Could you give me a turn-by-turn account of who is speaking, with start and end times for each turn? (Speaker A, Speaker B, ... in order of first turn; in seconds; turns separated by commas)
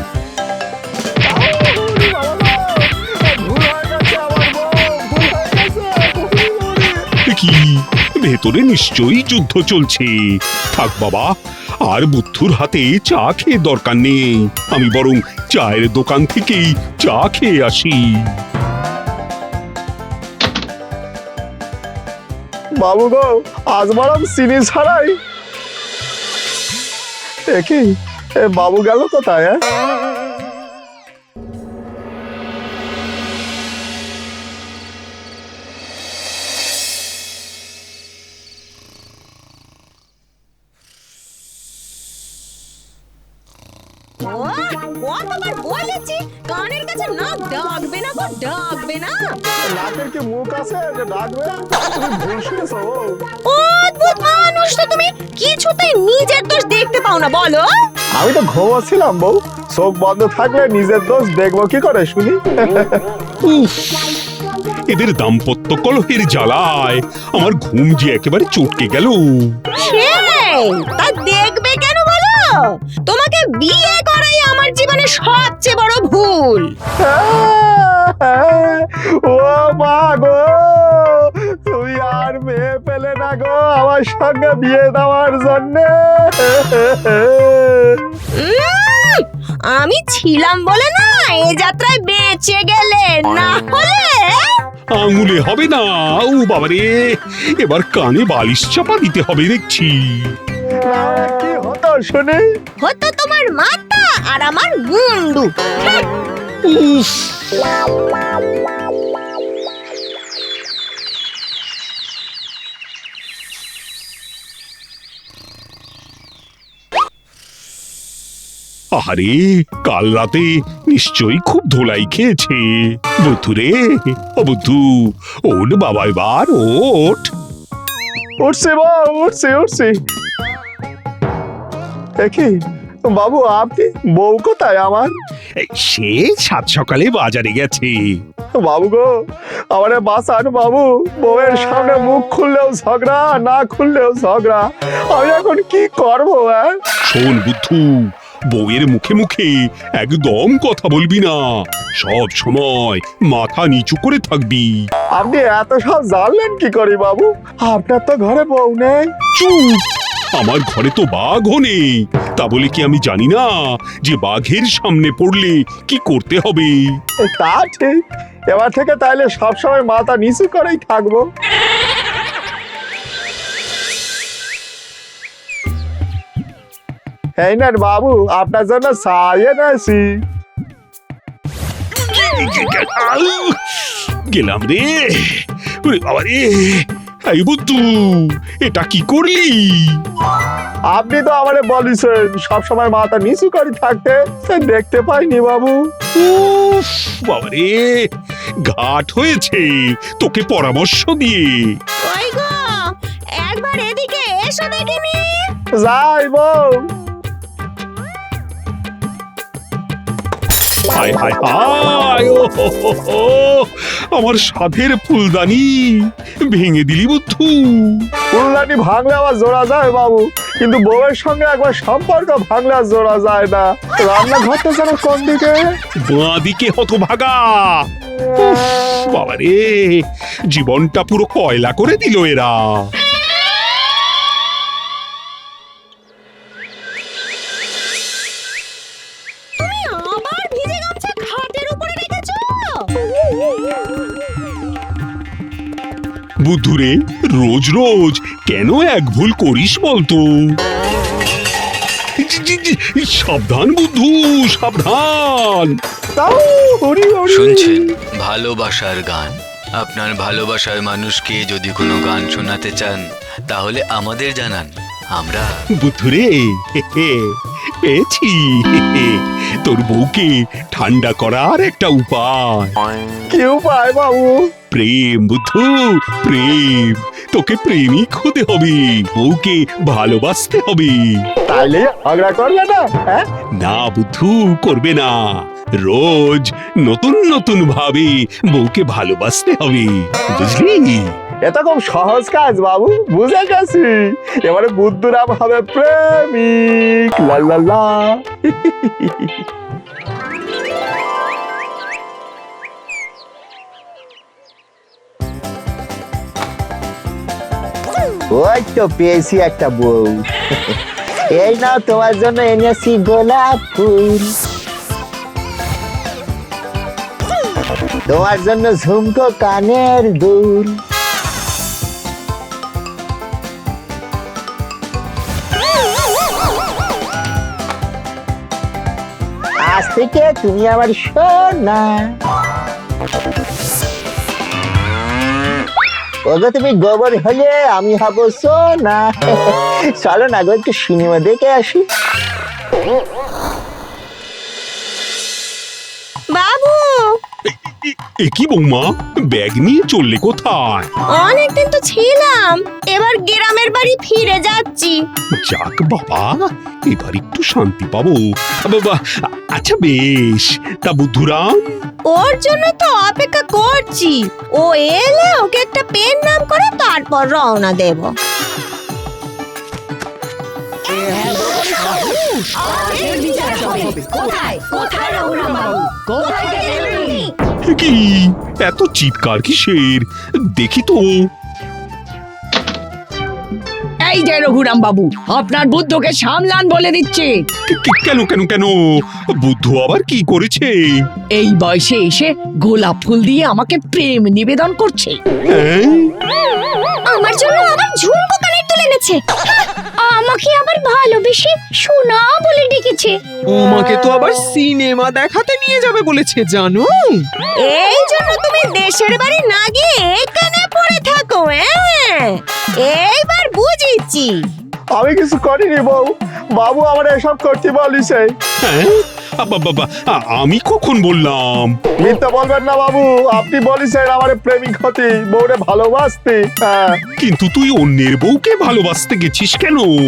Speaker A: 1.3-7.0, Speaker B: 7.3-11.3, Speaker B: 11.8-18.4, Speaker A: 22.8-25.1, Speaker A: 27.5-27.9, Speaker A: 28.4-29.6, Speaker C: 44.2-49.4, Speaker A: 49.7-53.2, Speaker C: 53.5-57.6, Speaker A: 58.2-63.0, Speaker B: 63.4-64.0, Speaker B: 64.9-69.6, Speaker C: 69.8-76.7, Speaker A: 77.0-88.1, Speaker C: 88.4-94.5, Speaker B: 94.9-100.4, Speaker A: 100.8-102.4, Speaker C: 102.8-106.0, Speaker B: 106.6-107.3, Speaker B: 118.9-127.3, Speaker A: 128.4-129.9, Speaker A: 132.2-132.6, Speaker A: 133.1-135.1, Speaker B: 135.6-138.2, Speaker A: 138.6-139.1, Speaker A: 139.7-146.8, Speaker B: 147.1-151.4, Speaker B: 152.0-154.7, Speaker A: 155.1-159.1, Speaker B: 159.3-159.8, Speaker B: 160.3-163.5, Speaker B: 164.0-166.8, Speaker A: 167.3-168.0, Speaker A: 168.5-171.2, Speaker A: 177.4-180.1, Speaker B: 181.9-190.0, Speaker A: 190.9-195.8, Speaker B: 196.1-198.1, Speaker B: 198.6-201.8, Speaker C: 202.1-205.5, Speaker A: 205.8-206.8, Speaker B: 210.9-215.7, Speaker B: 216.4-218.1, Speaker A: 218.3-225.6, Speaker B: 226.1-232.9, Speaker C: 239.6-242.9, Speaker B: 246.4-250.6, Speaker B: 252.2-255.8, Speaker A: 256.1-257.9, Speaker D: 257.3-265.5, Speaker B: 265.8-272.7, Speaker A: 273.3-274.4, Speaker B: 274.7-281.2, Speaker A: 281.5-283.2, Speaker B: 283.6-285.1, Speaker B: 285.8-291.1, Speaker A: 291.4-299.3, Speaker E: 308.3-310.8, Speaker E: 311.3-314.3, Speaker E: 318.1-320.8, Speaker E: 329.6-332.1, Speaker E: 336.3-341.8, Speaker C: 346.3-347.2, Speaker B: 347.5-350.9, Speaker C: 351.1-355.0, Speaker B: 355.4-361.8, Speaker C: 362.1-368.1, Speaker F: 370.9-377.3, Speaker B: 377.7-381.3, Speaker F: 384.0-387.4, Speaker B: 387.7-388.7, Speaker B: 389.4-391.0, Speaker F: 391.3-395.2, Speaker B: 395.5-396.1, Speaker C: 397.0-399.2, Speaker C: 400.0-403.1, Speaker G: 403.5-407.2, Speaker C: 407.6-414.4, Speaker A: 414.9-418.3, Speaker B: 418.6-421.7, Speaker A: 422.0-427.0, Speaker B: 427.2-429.9